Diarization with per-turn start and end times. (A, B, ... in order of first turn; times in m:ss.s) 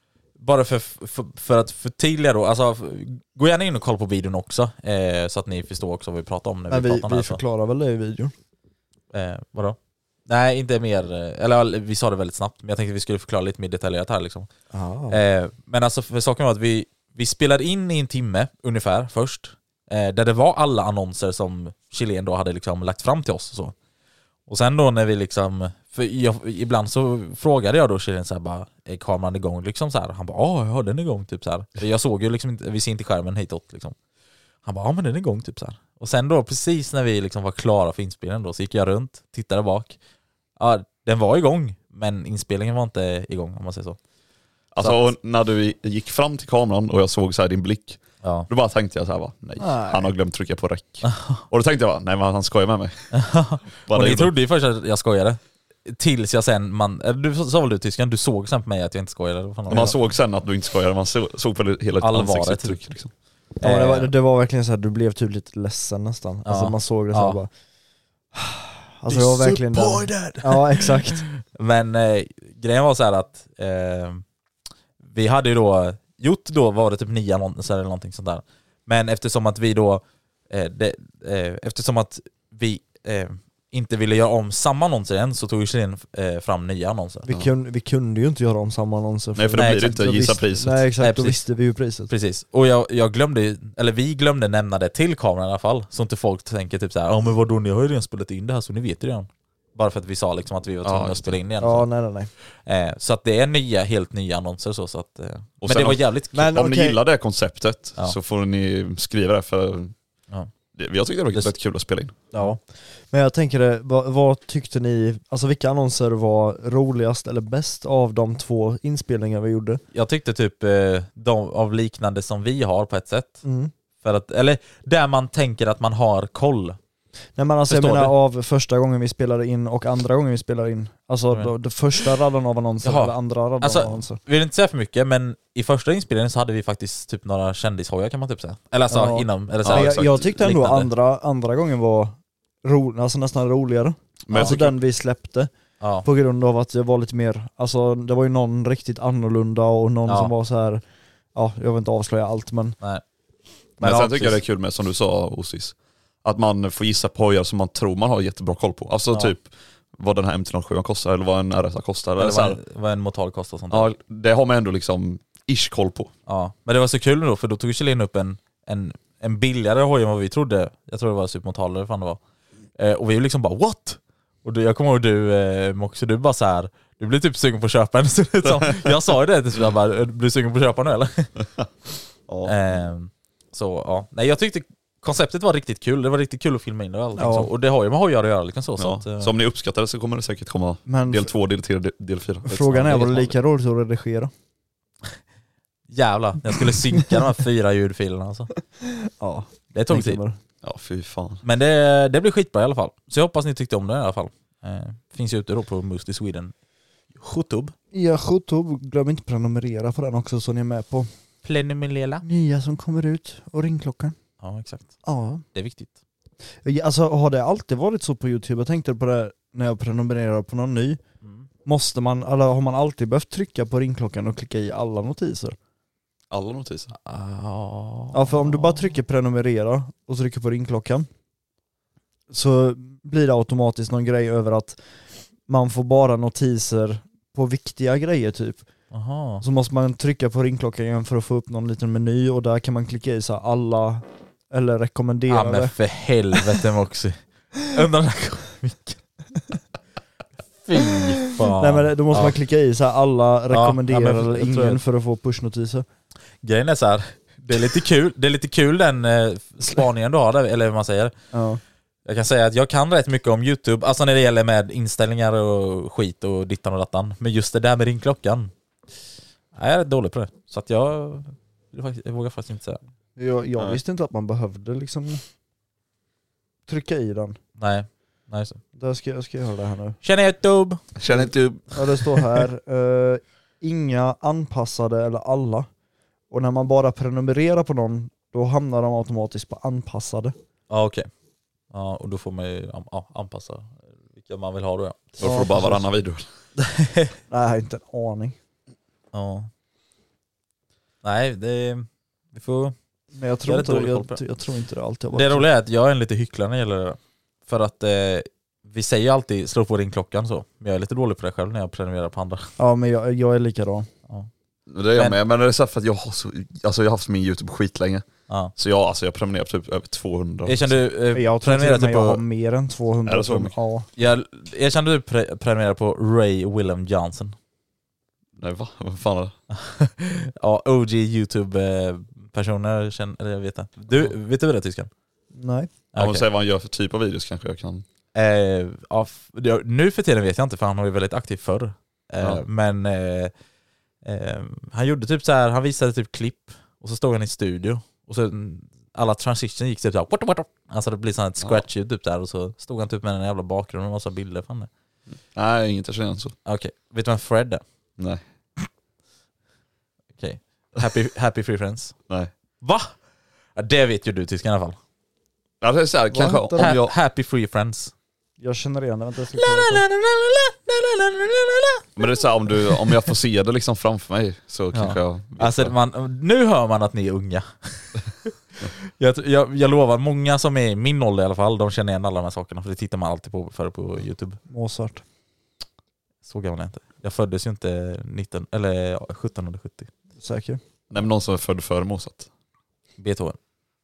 0:00.4-0:07.4 A
0:06.7-0:08.3 B
0:09.1-0:14.5 A
0:14.7-0:15.2 B
0:15.1-0:23.7 A
0:24.5-0:33.9 A
0:34.6-0:40.0 A
0:40.6-0:44.0 A
0:44.7-0:53.1 C
0:48.2-0:48.5 A
0:49.6-0:50.1 B
0:51.0-0:51.4 A
0:53.1-0:59.9 A
0:53.9-0:54.3 C
0:59.7-1:03.1 C
1:02.0-1:02.8 A
1:03.6-1:04.1 A
1:03.6-1:07.5 B
1:06.4-1:07.4 A
1:08.3-1:11.2 B
1:09.1-1:14.2 A
1:15.0-1:27.2 A
1:27.2-1:32.1 B
1:29.3-1:30.8 C
1:29.6-1:29.9 A
1:31.0-1:31.4 A
1:32.1-1:41.9 A
1:40.8-1:41.4 C
1:41.6-1:42.3 B
1:42.6-1:46.5 A
1:45.6-1:49.9 C
1:46.3-1:47.0 B
1:50.7-1:52.1 C
1:52.3-1:59.8 B
1:59.9-2:03.4 A
2:03.4-2:03.7 B
2:04.0-2:06.8 A
2:07.4-2:14.2 B
2:07.7-2:08.1 A
2:12.8-2:20.9 A
2:18.9-2:25.5 B
2:19.6-2:20.3 C
2:24.2-2:24.7 C
2:24.3-2:24.6 A
2:25.8-2:26.1 A
2:26.0-2:30.8 B
2:30.1-2:30.3 A
2:31.3-2:32.8 B
2:33.8-2:34.4 A
2:33.8-2:42.6 C
2:42.2-2:43.9 A
2:43.7-2:46.1 C
2:46.3-2:52.2 A
2:52.8-3:01.3 A
2:58.5-2:58.9 C
3:02.3-3:02.5 C
3:02.4-3:09.3 A
3:07.2-3:07.5 B
3:08.8-3:13.0 C
3:10.8-3:11.3 B
3:12.4-3:14.3 B
3:12.7-3:13.3 A
3:15.9-3:18.5 A
3:18.8-3:20.4 B
3:19.7-3:20.2 A
3:20.6-3:21.4 C
3:21.4-3:26.5 A
3:27.2-3:27.7 A
3:27.9-3:31.1 B
3:31.4-3:32.2 A
3:32.2-3:34.2 B
3:34.4-3:35.0 A
3:35.0-3:35.4 B
3:35.5-3:35.9 A
3:36.6-3:41.0 B
3:41.6-3:45.6 B
3:46.3-3:46.9 C
3:47.0-3:48.8 A
3:48.1-3:51.1 B
3:52.3-3:54.8 B
3:55.5-3:58.6 B
3:58.9-3:59.4 A
3:59.4-4:05.7 B
4:05.3-4:09.0 A
4:10.6-4:12.3 A
4:11.6-4:15.8 B
4:13.5-4:14.8 A
4:16.4-4:21.1 A
4:21.3-4:21.6 B
4:22.0-4:28.5 A
4:29.5-4:32.8 A
4:33.2-4:35.2 B
4:36.7-4:37.4 B
4:37.6-4:38.6 A
4:38.8-4:40.0 B
4:40.0-4:40.8 A
4:41.0-4:41.8 C
4:41.7-4:45.7 B
4:46.3-4:50.3 B
4:50.7-4:51.1 A
4:51.7-4:55.1 A
4:55.2-4:55.8 B
4:55.2-4:56.2 C
4:56.8-4:57.1 A
4:57.3-4:58.4 B
4:59.1-4:59.5 A
5:01.0-5:02.7 A
5:03.1-5:05.5 B
5:03.4-5:04.2 A
5:05.1-5:12.5 A
5:12.6-5:13.9 B
5:14.7-5:20.8 C
5:20.4-5:22.2 A
5:21.1-5:23.9 B
5:23.0-5:23.5 C
5:24.0-5:27.3 A
5:28.4-5:29.3 C
5:29.5-5:34.9 A
5:35.3-5:35.7 B
5:35.9-5:36.2 A
5:36.0-5:37.8 C
5:38.1-5:43.3 A
5:44.0-5:54.7 A
5:55.3-5:56.4 C
5:56.4-5:57.6 A
6:00.2-6:01.9 A
6:02.6-6:02.9 A
6:03.6-6:04.8 A
6:05.6-6:06.9 C
6:06.1-6:06.7 B
6:06.6-6:07.9 A
6:08.4-6:09.8 B
6:09.4-6:11.9 A
6:12.0-6:15.7 C
6:15.4-6:18.0 A
6:19.0-6:24.4 A
6:24.5-6:25.0 B
6:26.2-6:29.9 A
6:30.2-6:30.6 B
6:30.9-6:32.3 C
6:33.0-6:33.4 A